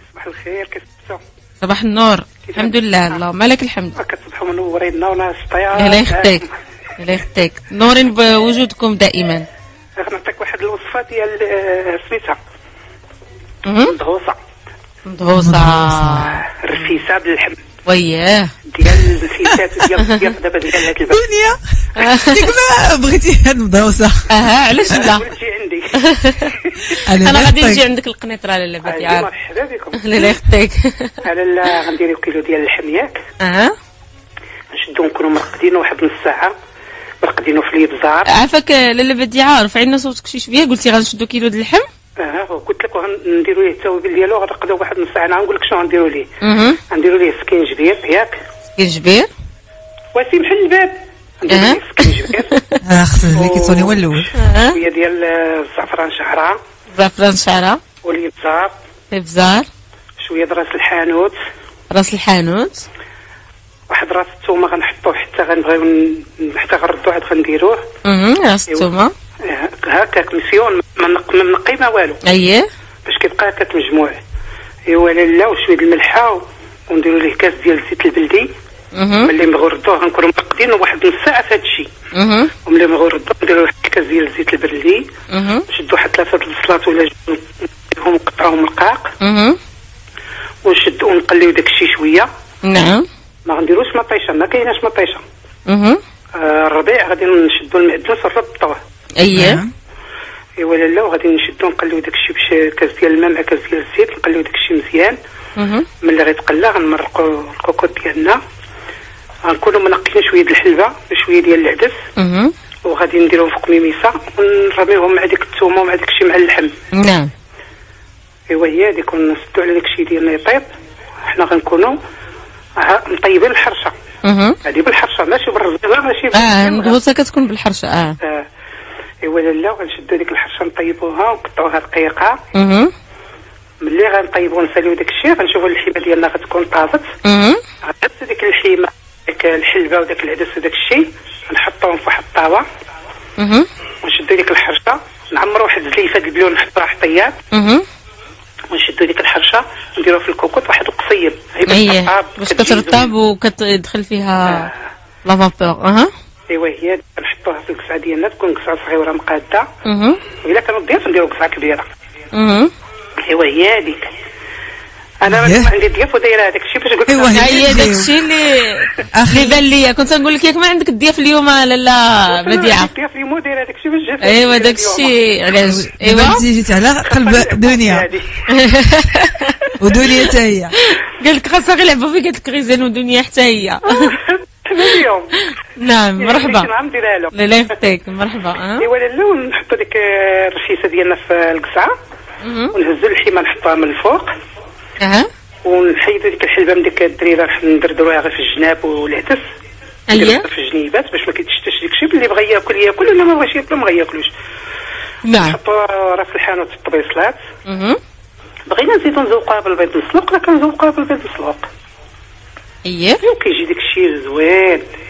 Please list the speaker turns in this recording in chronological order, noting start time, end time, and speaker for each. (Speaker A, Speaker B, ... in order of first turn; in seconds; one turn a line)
Speaker A: 0.1-1.2
Speaker B: 1.6-4.0
Speaker A: 2.5-3.2
Speaker A: 4.0-6.5
Speaker B: 5.8-6.4
Speaker B: 7.0-9.5
Speaker A: 10.0-12.4
Speaker B: 13.7-14.0
Speaker A: 13.8-14.4
Speaker B: 15.1-16.5
Speaker C: 15.4-16.3
Speaker A: 16.5-17.6
Speaker B: 17.9-18.5
Speaker A: 18.7-21.2
Speaker C: 21.0-24.3
Speaker B: 22.0-22.6
Speaker B: 24.3-25.2
Speaker A: 24.9-27.0
Speaker B: 25.9-26.5
Speaker C: 27.1-27.9
Speaker B: 27.1-29.3
Speaker A: 28.9-30.3
Speaker B: 30.0-31.2
Speaker A: 31.2-33.2
Speaker B: 33.4-33.7
Speaker A: 34.7-36.5
Speaker A: 37.2-38.3
Speaker B: 38.3-41.9
Speaker A: 42.2-46.3
Speaker B: 46.4-46.8
Speaker A: 46.9-48.4
Speaker B: 48.8-49.3
Speaker A: 50.1-52.5
Speaker B: 51.5-52.8
Speaker C: 52.9-54.3
Speaker A: 53.3-54.0
Speaker B: 54.4-54.8
Speaker A: 54.7-56.6
Speaker B: 57.0-57.8
Speaker A: 58.0-58.7
Speaker B: 59.1-59.7
Speaker A: 60.2-61.4
Speaker B: 61.9-62.9
Speaker A: 63.9-67.8
Speaker B: 68.0-69.1
Speaker A: 69.4-72.2
Speaker B: 72.2-72.7
Speaker A: 73.1-74.2
Speaker A: 74.9-78.5
Speaker B: 78.9-79.3
Speaker A: 79.2-81.9
Speaker B: 82.1-82.5
Speaker A: 82.7-85.1
Speaker B: 85.3-85.6
Speaker A: 85.7-89.1
Speaker B: 89.2-89.6
Speaker A: 90.6-92.3
Speaker B: 92.6-93.1
Speaker A: 93.5-95.2
Speaker B: 95.7-96.0
Speaker A: 96.4-98.8
Speaker B: 99.2-99.6
Speaker C: 99.3-99.7
Speaker A: 100.6-105.2
Speaker B: 105.6-105.8
Speaker A: 106.0-108.4
Speaker A: 109.5-112.0
Speaker B: 112.2-112.5
Speaker A: 112.9-116.7
Speaker B: 116.9-117.3
Speaker A: 118.5-120.7
Speaker A: 121.3-122.0
Speaker A: 122.8-124.0
Speaker B: 124.2-124.6
Speaker A: 124.7-127.0
Speaker B: 126.3-128.2
Speaker A: 128.2-128.5
Speaker A: 129.2-132.4
Speaker B: 132.5-132.9
Speaker A: 133.8-137.1
Speaker B: 137.2-137.6
Speaker A: 137.8-142.7
Speaker B: 143.4-143.7
Speaker A: 144.0-147.4
Speaker B: 147.5-147.8
Speaker A: 148.7-153.1
Speaker B: 151.7-154.7
Speaker A: 154.5-154.8
Speaker B: 155.2-156.1
Speaker A: 156.5-159.7
Speaker B: 159.8-160.2
Speaker A: 160.4-161.9
Speaker B: 162.3-162.7
Speaker A: 163.3-164.1
Speaker A: 165.2-167.9
Speaker C: 165.3-165.7
Speaker C: 167.1-168.1
Speaker B: 167.3-172.9
Speaker C: 169.1-169.6
Speaker A: 172.3-175.1
Speaker B: 174.2-176.4
Speaker C: 175.6-178.1
Speaker A: 177.1-178.4
Speaker B: 178.5-179.6
Speaker C: 179.8-180.7
Speaker B: 180.8-184.2
Speaker A: 183.9-185.3
Speaker B: 185.8-186.7
Speaker A: 186.2-187.3
Speaker B: 187.3-188.8
Speaker A: 188.8-191.9
Speaker B: 192.4-192.7
Speaker A: 192.7-194.3
Speaker B: 195.0-195.3
Speaker A: 195.6-199.4
Speaker B: 200.1-200.4
Speaker A: 200.1-204.3
Speaker B: 205.2-205.6
Speaker A: 205.4-207.4
Speaker B: 207.7-208.0
Speaker A: 208.7-211.7
Speaker B: 212.8-213.2
Speaker A: 213.2-214.8